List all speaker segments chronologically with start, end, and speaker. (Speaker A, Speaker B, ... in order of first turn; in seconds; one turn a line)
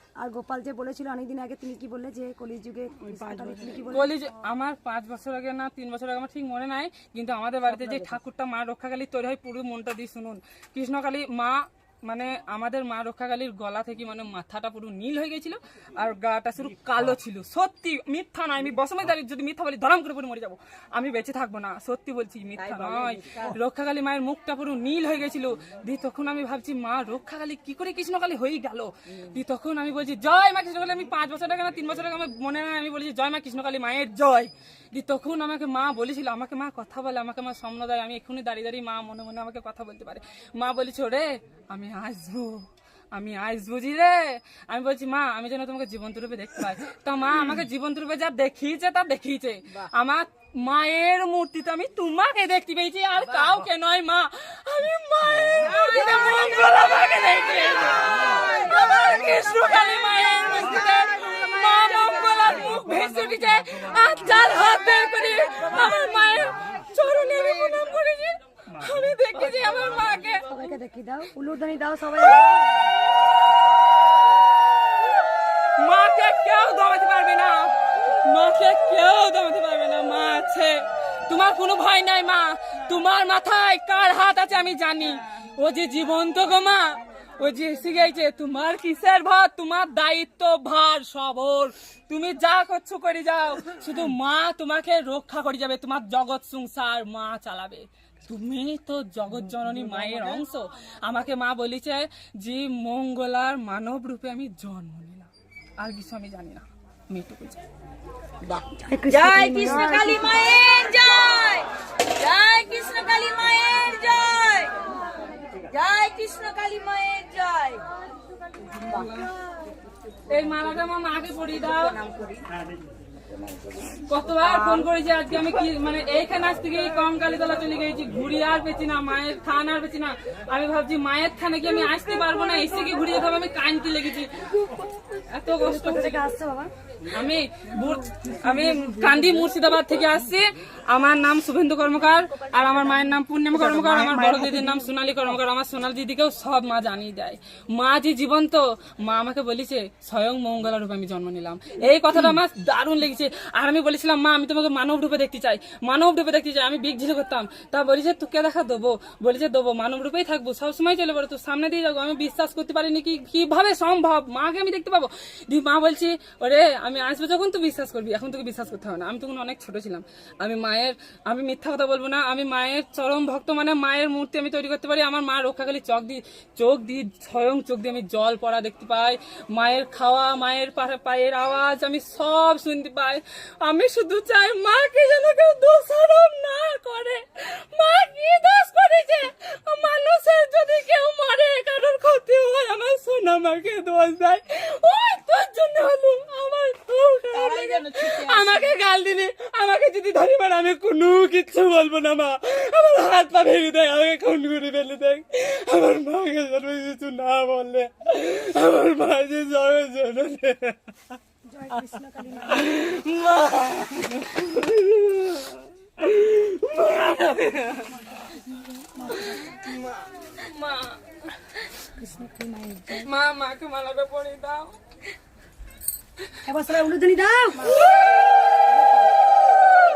Speaker A: 0.2-4.1
Speaker B: 3.0-70.5
Speaker C: 22.6-23.5
Speaker C: 58.2-58.7
Speaker A: 70.5-72.7
Speaker B: 72.2-72.5
Speaker B: 75.8-107.6
Speaker A: 108.5-110.4
Speaker C: 109.1-114.7
Speaker C: 115.7-117.8
Speaker B: 118.8-119.3
Speaker B: 120.3-122.0
Speaker C: 122.0-122.4
Speaker B: 124.1-134.3
Speaker C: 124.5-124.8
Speaker B: 135.3-136.2
Speaker A: 135.5-136.7
Speaker B: 137.1-211.2
Speaker C: 197.3-198.7
Speaker A: 211.5-212.8
Speaker B: 212.4-217.9
Speaker A: 218.9-219.4
Speaker B: 219.1-221.0
Speaker A: 222.0-223.1
Speaker B: 222.9-224.8
Speaker A: 226.4-227.8
Speaker B: 227.6-228.7